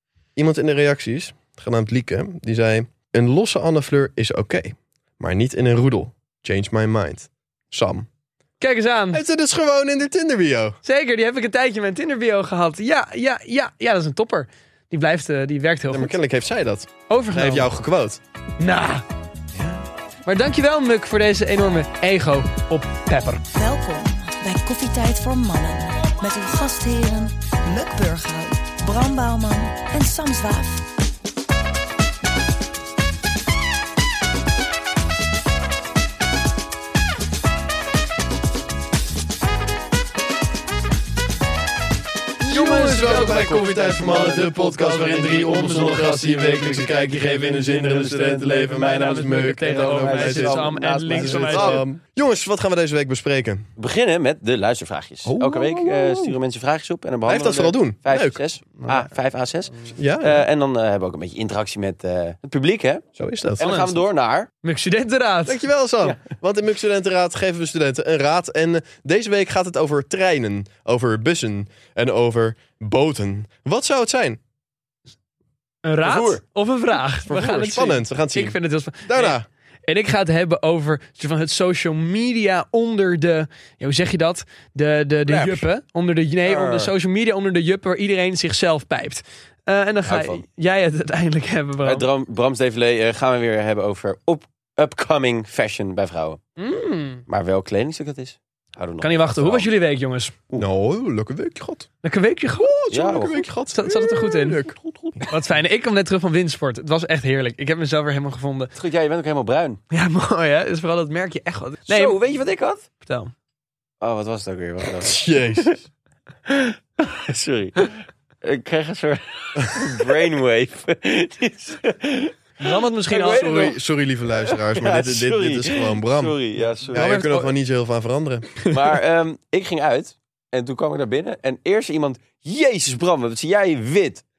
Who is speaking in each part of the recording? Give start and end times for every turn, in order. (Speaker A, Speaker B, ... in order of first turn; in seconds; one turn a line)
Speaker A: 0.3-8.1
Speaker B: 8.6-9.2
Speaker A: 9.1-10.8
Speaker B: 10.8-16.1
Speaker A: 15.9-18.2
Speaker B: 17.1-17.7
Speaker B: 18.6-19.0
Speaker A: 19.5-19.8
Speaker B: 20.2-23.4
Speaker C: 23.5-30.9
Speaker B: 42.4-51.8
Speaker A: 42.5-53.7
Speaker D: 49.9-51.8
Speaker D: 53.8-63.0
Speaker A: 55.2-56.4
Speaker A: 57.2-58.4
Speaker B: 58.8-59.1
Speaker A: 60.0-60.5
Speaker A: 63.2-63.7
Speaker D: 63.6-64.5
Speaker B: 63.6-64.0
Speaker B: 64.6-65.6
Speaker A: 65.5-74.4
Speaker B: 75.8-92.0
Speaker D: 76.0-76.4
Speaker A: 77.2-79.4
Speaker A: 85.3-85.6
Speaker A: 86.5-86.9
Speaker D: 90.0-90.4
Speaker D: 91.8-96.4
Speaker B: 96.6-97.2
Speaker D: 97.3-99.7
Speaker B: 99.0-100.4
Speaker A: 100.5-101.9
Speaker B: 102.0-102.7
Speaker A: 102.6-105.2
Speaker D: 102.9-103.5
Speaker B: 103.7-104.6
Speaker B: 105.3-108.7
Speaker D: 108.8-109.8
Speaker B: 109.9-112.2
Speaker D: 111.9-112.8
Speaker B: 113.0-113.3
Speaker D: 114.0-115.8
Speaker A: 115.0-115.8
Speaker D: 116.5-127.3
Speaker A: 119.6-119.9
Speaker B: 122.6-123.5
Speaker A: 123.2-126.3
Speaker B: 126.9-127.5
Speaker A: 126.9-128.6
Speaker D: 128.7-134.2